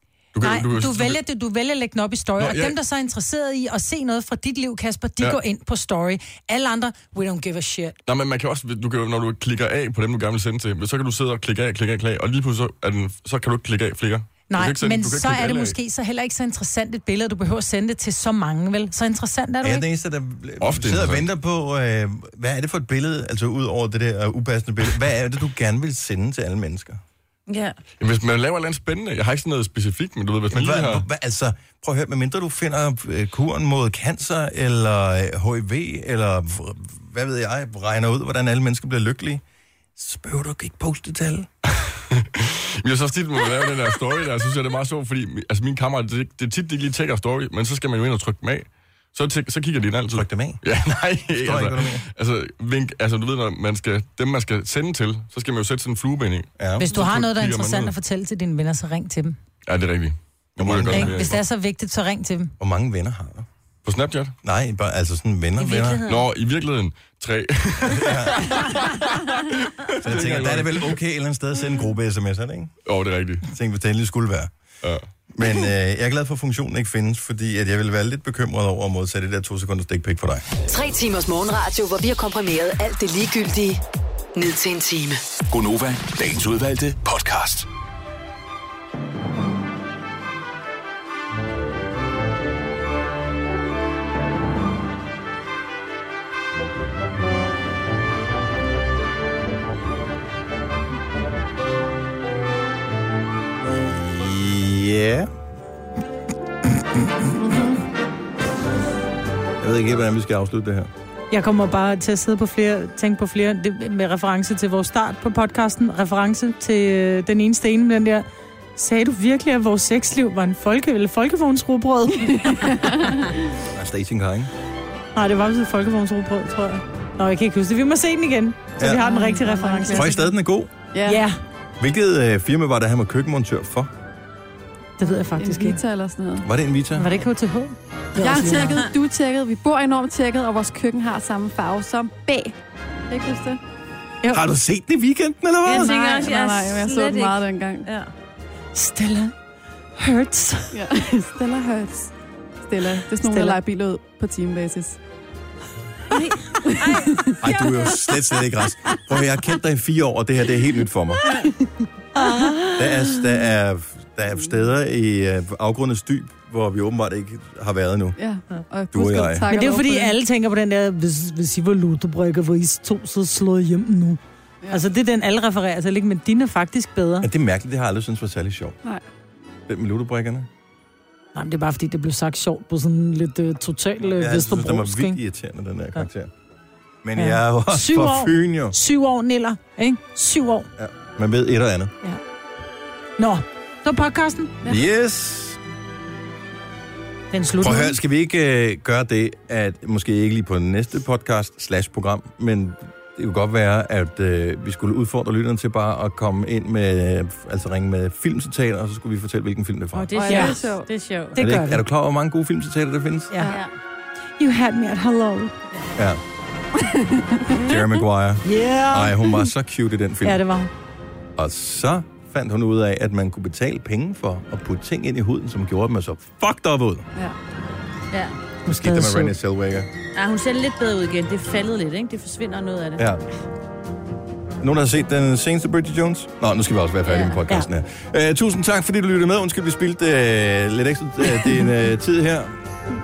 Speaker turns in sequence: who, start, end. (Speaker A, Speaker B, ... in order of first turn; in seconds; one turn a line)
Speaker A: 0.3-1.2
Speaker B: 0.4-8.0
Speaker A: 2.4-2.8
Speaker A: 8.1-15.8
Speaker B: 14.5-19.9
Speaker C: 19.6-27.0
Speaker A: 20.6-21.2
Speaker D: 27.5-27.8
Speaker A: 28.0-31.1
Speaker C: 30.5-39.4
Speaker C: 40.0-41.5
Speaker A: 41.7-57.9
Speaker C: 50.1-50.6
Speaker C: 51.3-52.0
Speaker C: 56.6-56.9
Speaker B: 56.8-59.4
Speaker A: 59.7-61.4
Speaker C: 60.6-61.4
Speaker B: 60.9-62.5
Speaker C: 62.6-63.5
Speaker A: 63.8-64.3
Speaker C: 64.4-66.0
Speaker D: 65.6-66.3
Speaker A: 66.1-71.0
Speaker C: 67.9-68.9
Speaker C: 69.9-72.7
Speaker A: 72.8-73.5
Speaker C: 73.5-74.5
Speaker A: 74.8-75.1
Speaker C: 75.3-80.5
Speaker E: 80.7-83.8
Speaker E: 84.3-85.2
Speaker F: 85.5-87.7
Speaker C: 103.8-105.3
Speaker G: 107.3-107.8
Speaker C: 109.6-110.9
Speaker B: 111.3-118.2
Speaker B: 118.8-122.9
Speaker G: 122.3-123.2
Speaker C: 123.7-124.5
Speaker B: 125.2-130.3
Speaker C: 128.8-129.1
Speaker G: 129.0-130.2
Speaker C: 129.9-130.7
Speaker G: 130.9-131.2
Speaker B: 131.1-131.4
Speaker C: 131.8-133.9
Speaker B: 135.0-135.8
Speaker G: 135.0-136.5
Speaker C: 136.4-137.1
Speaker B: 137.0-138.8
Speaker G: 138.2-142.6
Speaker G: 143.1-143.6
Speaker C: 144.3-146.3
Speaker D: 145.7-148.1
Speaker G: 145.8-147.9
Speaker B: 148.7-149.3
Speaker B: 150.0-150.8
Speaker G: 150.7-152.1
Speaker G: 152.7-155.0
Speaker B: 153.2-153.6
Speaker D: 156.1-157.8
Speaker G: 156.7-157.3
Speaker C: 157.4-161.4
Speaker B: 162.2-162.7
Speaker G: 162.2-162.7
Speaker C: 162.8-168.2
Speaker G: 168.2-170.2
Speaker C: 168.9-169.5
Speaker B: 169.5-177.3
Speaker C: 177.2-178.8
Speaker C: 179.7-180.5
Speaker B: 181.3-185.2
Speaker C: 184.1-186.3
Speaker C: 187.0-188.8
Speaker B: 187.2-190.7
Speaker C: 190.8-191.9
Speaker B: 193.2-194.6
Speaker C: 194.7-195.6
Speaker B: 197.3-198.0
Speaker C: 197.6-210.2
Speaker D: 210.0-211.3
Speaker B: 210.2-210.6
Speaker G: 210.2-210.9
Speaker B: 211.3-211.8
Speaker C: 211.4-213.3
Speaker B: 213.3-213.6
Speaker D: 213.4-213.7
Speaker B: 214.4-215.5
Speaker C: 216.0-216.2
Speaker G: 216.8-217.8
Speaker C: 217.5-220.4
Speaker B: 218.4-219.2
Speaker B: 220.2-220.7
Speaker C: 221.4-227.1
Speaker D: 228.1-228.4
Speaker B: 228.7-229.3
Speaker C: 228.7-229.9
Speaker D: 230.2-233.0
Speaker C: 233.0-233.2
Speaker C: 234.6-242.6
Speaker D: 237.1-237.4